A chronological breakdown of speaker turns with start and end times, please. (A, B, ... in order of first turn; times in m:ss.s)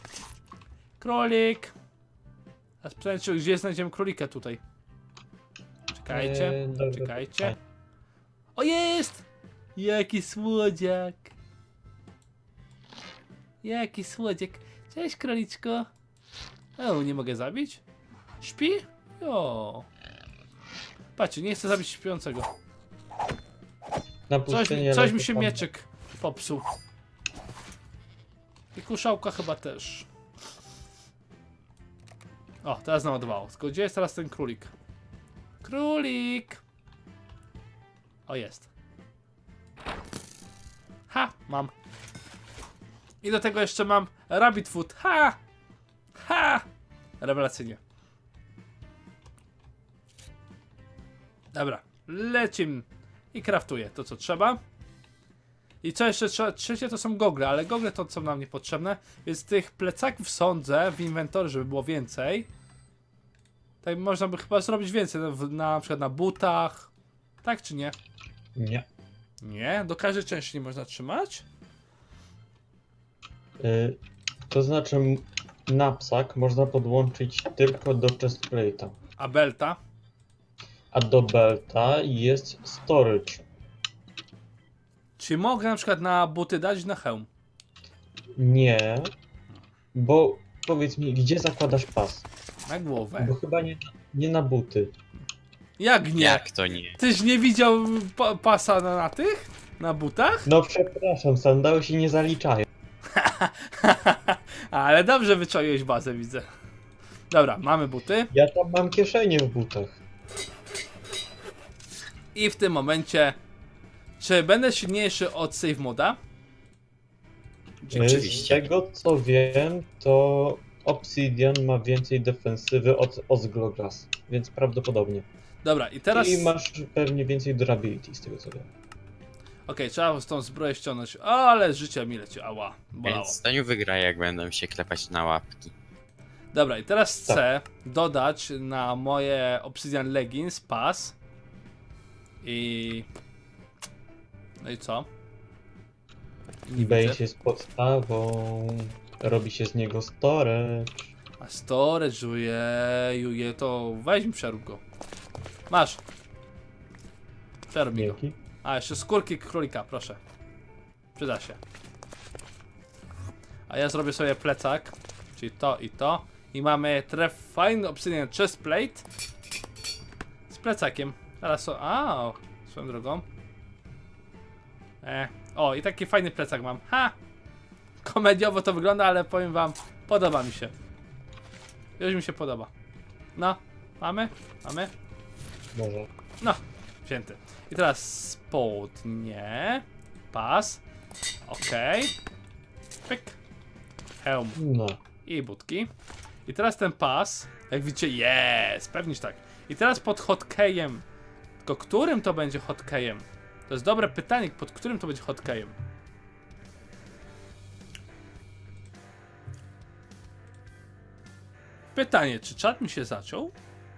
0:01.0-0:01.7 A
0:02.8-0:04.6 A
0:05.9-0:07.6 A
0:06.1-0:07.6 B
0:08.6-0:09.2 A
0:09.8-0:11.3 A
0:13.6-0:15.9 A
0:16.8-0:17.8 A
0:18.4-0:19.9 A
0:21.2-0:22.5 A
0:24.3-0:25.6 B
0:24.5-0:26.6 A
0:28.7-0:30.1 A
0:32.6-0:34.7 A
0:35.6-0:36.6 A
0:38.3-0:38.7 A
0:41.1-0:41.7 A
0:43.2-0:45.4 A
0:46.2-0:46.6 A
0:47.2-0:47.8 A
0:51.5-0:54.6 A
0:55.8-1:02.5 A
1:03.8-1:06.9 A
1:07.4-1:08.0 A
1:08.6-1:08.9 B
1:09.4-1:11.4 A
1:13.6-1:19.0 B
1:19.2-1:19.8 A
1:20.9-1:23.4 B
1:25.2-1:27.3 A
1:28.4-1:29.1 B
1:29.9-1:32.3 B
1:32.7-1:33.4 A
1:33.2-1:34.9 B
1:35.8-1:40.5 A
1:36.2-1:37.0 C
1:40.5-1:42.7 B
1:43.1-1:46.5 A
1:47.3-1:48.3 A
1:48.3-1:50.0 B
1:52.4-1:53.4 A
1:54.2-1:56.2 A
1:57.8-1:58.5 A
1:57.9-1:58.7 C
1:57.9-2:05.3 B
2:05.6-2:06.5 A
2:06.1-2:08.7 B
2:09.7-2:13.4 A
2:13.0-2:15.7 C
2:16.5-2:21.2 A
2:22.4-2:23.1 A
2:24.6-2:25.1 A
2:26.7-2:27.2 A
2:26.8-2:31.1 B
2:31.4-2:34.8 A
2:35.7-2:36.0 A
2:37.7-2:40.2 A
2:38.0-2:38.4 B
2:41.2-2:41.6 A
2:43.7-2:49.0 A
2:50.5-2:53.2 A
2:55.0-2:57.1 A
2:58.0-3:00.8 A
3:02.0-3:02.7 A
3:03.4-3:04.9 A
3:05.7-3:06.1 B
3:06.4-3:10.8 A
3:11.5-3:12.1 A
3:13.1-3:13.4 A
3:14.2-3:14.6 A
3:14.6-3:15.0 B
3:15.2-3:15.9 A
3:16.5-3:21.0 A
3:21.6-3:25.8 A
3:32.0-3:33.5 A